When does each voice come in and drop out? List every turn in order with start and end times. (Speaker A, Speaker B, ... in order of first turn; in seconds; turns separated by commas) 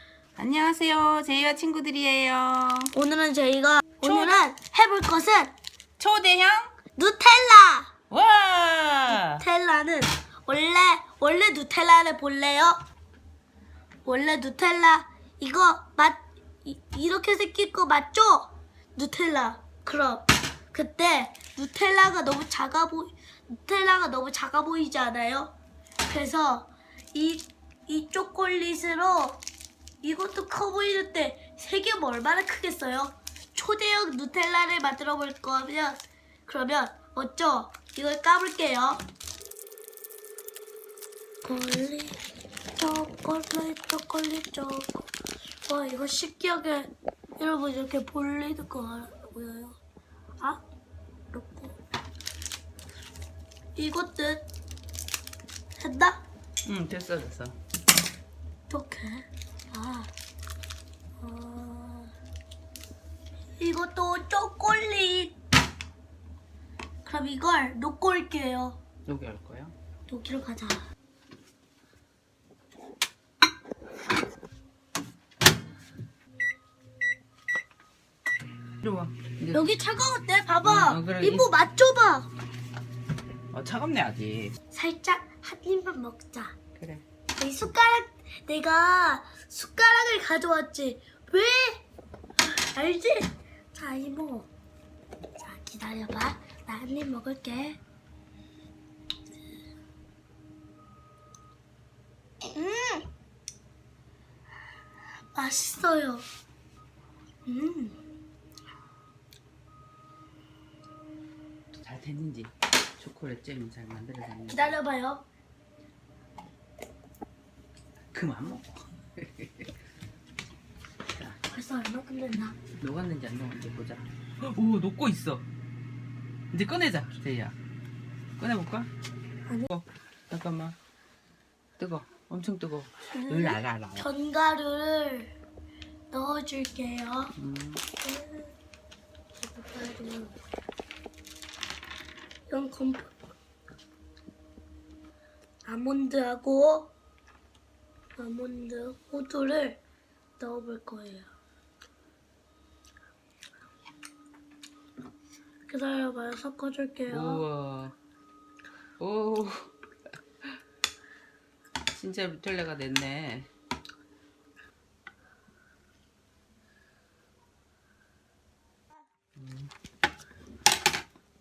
Speaker A: 0.4-2.9, Speaker B: 2.9-5.5, Speaker A: 4.0-4.4, Speaker A: 6.0-6.7, Speaker B: 7.0-7.9, Speaker A: 8.1-9.4, Speaker B: 9.1-12.8, Speaker B: 14.0-25.5, Speaker B: 26.1-29.4, Speaker B: 30.0-39.0, Speaker B: 41.4-42.2, Speaker B: 42.8-45.1, Speaker B: 45.6-49.8, Speaker B: 51.3-51.8, Speaker B: 53.7-54.4, Speaker B: 55.8-56.2, Speaker A: 56.6-57.6, Speaker B: 58.7-60.1, Speaker B: 61.2-62.1, Speaker B: 63.6-65.4, Speaker B: 67.0-68.8, Speaker A: 69.0-69.7, Speaker B: 70.1-70.8, Speaker A: 78.8-79.7, Speaker B: 79.5-82.3, Speaker A: 80.6-81.5, Speaker A: 83.5-84.5, Speaker B: 84.7-86.5, Speaker A: 86.8-87.0, Speaker B: 87.3-91.8, Speaker B: 92.4-94.5, Speaker B: 95.4-97.8, Speaker B: 102.4-103.1, Speaker B: 105.3-106.3, Speaker B: 107.5-108.0, Speaker A: 111.7-114.8, Speaker B: 114.5-115.2, Speaker A: 118.1-119.7, Speaker B: 121.5-122.6, Speaker A: 122.8-125.4, Speaker A: 126.5-127.5, Speaker A: 128.4-128.9, Speaker A: 129.7-130.8, Speaker A: 131.8-134.1, Speaker B: 133.1-135.3, Speaker B: 136.1-137.3, Speaker A: 137.3-137.8, Speaker B: 138.0-138.5, Speaker B: 139.4-140.3, Speaker B: 142.5-143.1, Speaker B: 145.7-146.9, Speaker B: 148.2-149.8, Speaker B: 150.4-151.3, Speaker B: 155.7-157.4, Speaker A: 157.1-157.9, Speaker A: 159.0-159.7, Speaker A: 161.9-163.5, Speaker A: 169.3-169.7